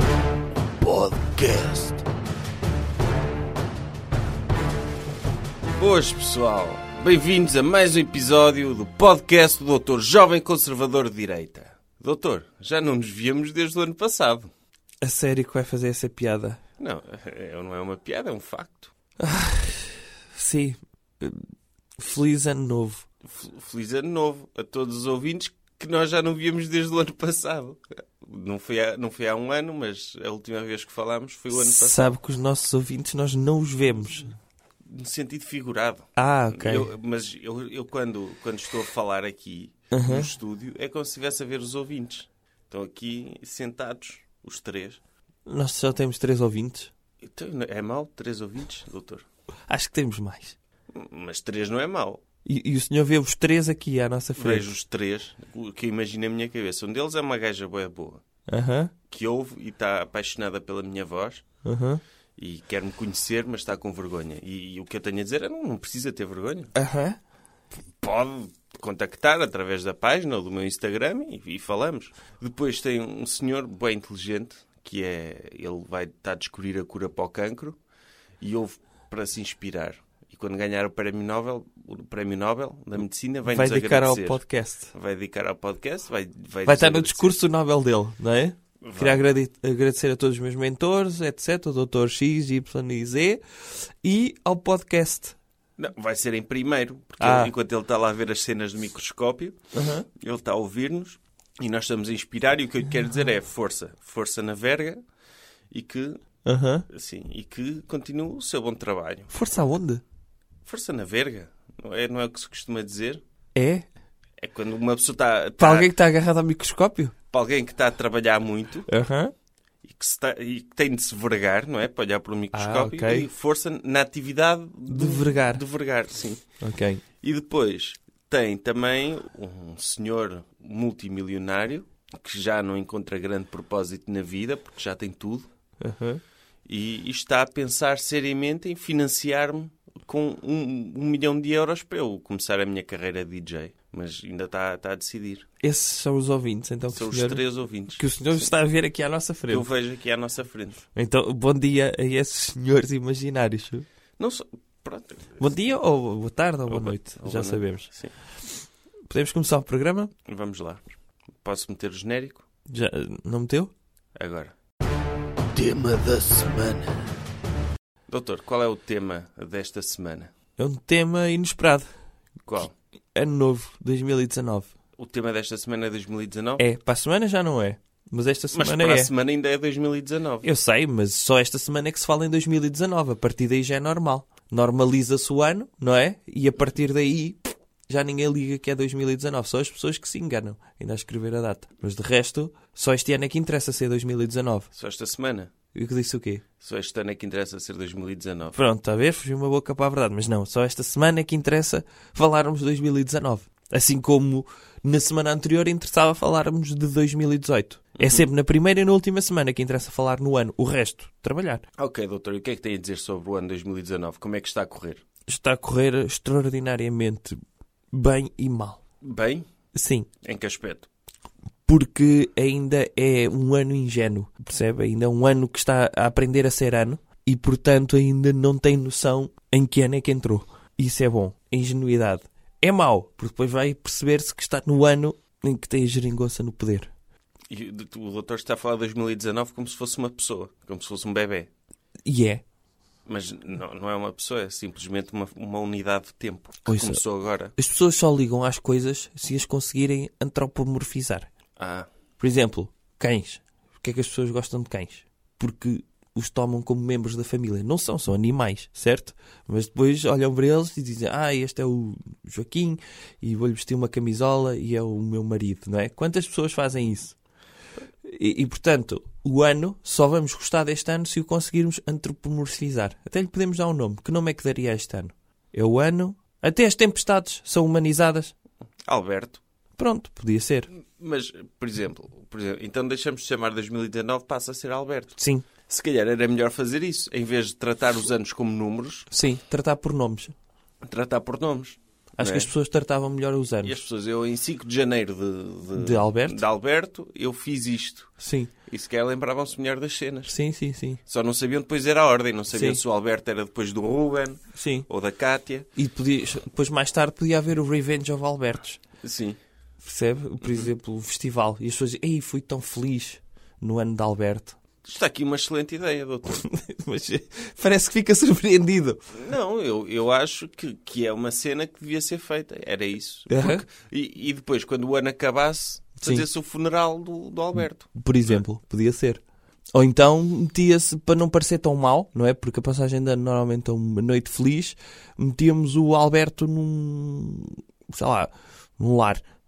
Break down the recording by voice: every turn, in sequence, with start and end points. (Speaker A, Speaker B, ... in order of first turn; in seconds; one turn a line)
Speaker A: 0.8-2.0
Speaker B: 5.8-14.5
Speaker C: 15.0-16.6
Speaker B: 16.8-18.9
Speaker C: 19.2-21.4
Speaker C: 22.0-23.1
Speaker B: 23.2-32.1
Speaker C: 31.5-34.3
Speaker B: 34.9-45.0
Speaker C: 36.2-36.9
Speaker C: 39.9-40.3
Speaker C: 45.5-46.9
Speaker B: 47.2-49.2
Speaker C: 49.7-50.6
Speaker B: 50.9-52.2
Speaker C: 52.5-54.6
Speaker B: 54.4-58.2
Speaker C: 58.5-58.9
Speaker B: 59.1-61.5
Speaker C: 61.6-62.0
Speaker B: 62.4-66.7
Speaker C: 66.8-67.2
Speaker B: 68.0-77.8
Speaker B: 78.4-84.4
Speaker C: 83.5-84.9
Speaker B: 84.9-87.4
Speaker C: 86.7-93.4
Speaker B: 88.8-89.3
Speaker C: 94.0-95.4
Speaker B: 95.8-99.6
Speaker C: 97.2-97.5
Speaker C: 99.7-100.0
Speaker B: 100.1-105.0
Speaker B: 105.7-106.2
Speaker C: 106.5-106.8
Speaker B: 106.9-109.3
Speaker C: 109.3-110.0
Speaker B: 110.7-113.2
Speaker C: 113.5-113.9
Speaker B: 114.4-115.9
Speaker C: 115.6-117.1
Speaker B: 117.3-118.9
Speaker C: 118.9-119.3
Speaker B: 119.8-126.4
Speaker C: 122.5-123.3
Speaker C: 124.9-125.6
Speaker C: 126.6-127.0
Speaker B: 127.2-135.5
Speaker C: 135.8-136.2
Speaker B: 136.7-145.5
Speaker C: 145.6-149.7
Speaker B: 146.9-148.5
Speaker B: 149.5-150.8
Speaker C: 150.9-153.9
Speaker B: 154.2-155.5
Speaker C: 155.4-157.9
Speaker B: 156.7-158.1
Speaker C: 159.1-160.1
Speaker B: 160.3-160.8
Speaker B: 161.4-162.4
Speaker C: 162.7-163.7
Speaker B: 164.2-164.5
Speaker A: 165.5-167.0
Speaker B: 168.1-170.3
Speaker C: 170.6-171.9
Speaker B: 172.4-172.7
Speaker C: 173.2-174.7
Speaker B: 175.0-176.6
Speaker C: 176.6-179.1
Speaker B: 178.5-180.5
Speaker C: 180.4-194.7
Speaker B: 194.7-195.5
Speaker C: 195.7-196.4
Speaker B: 196.6-198.6
Speaker C: 198.5-211.6
Speaker B: 208.0-208.2
Speaker B: 211.8-215.0
Speaker C: 215.3-217.4
Speaker C: 217.9-218.8
Speaker B: 219.0-219.5
Speaker C: 219.7-220.1
Speaker B: 220.2-220.9
Speaker C: 221.7-236.9
Speaker B: 237.5-241.5
Speaker C: 242.1-242.4
Speaker B: 243.1-247.5
Speaker C: 246.7-247.0
Speaker C: 247.6-251.3
Speaker B: 251.6-251.9
Speaker C: 252.2-267.2
Speaker C: 268.0-278.3
Speaker B: 278.9-279.4
Speaker C: 279.8-280.7
Speaker B: 280.7-289.1
Speaker C: 285.2-285.5
Speaker C: 289.1-290.3
Speaker B: 290.8-292.5
Speaker C: 292.2-293.8
Speaker B: 293.6-298.1
Speaker C: 295.8-296.4
Speaker C: 298.2-298.5
Speaker B: 298.7-300.4
Speaker C: 300.3-301.0
Speaker B: 301.1-305.7
Speaker C: 302.5-302.8
Speaker C: 304.6-304.9
Speaker C: 305.8-308.8
Speaker B: 309.0-309.4
Speaker C: 309.8-314.6
Speaker B: 310.4-310.7
Speaker B: 314.8-316.4
Speaker C: 316.3-319.0
Speaker B: 319.1-328.4
Speaker C: 323.3-323.6
Speaker C: 326.0-326.3
Speaker C: 327.9-329.2
Speaker C: 329.7-339.2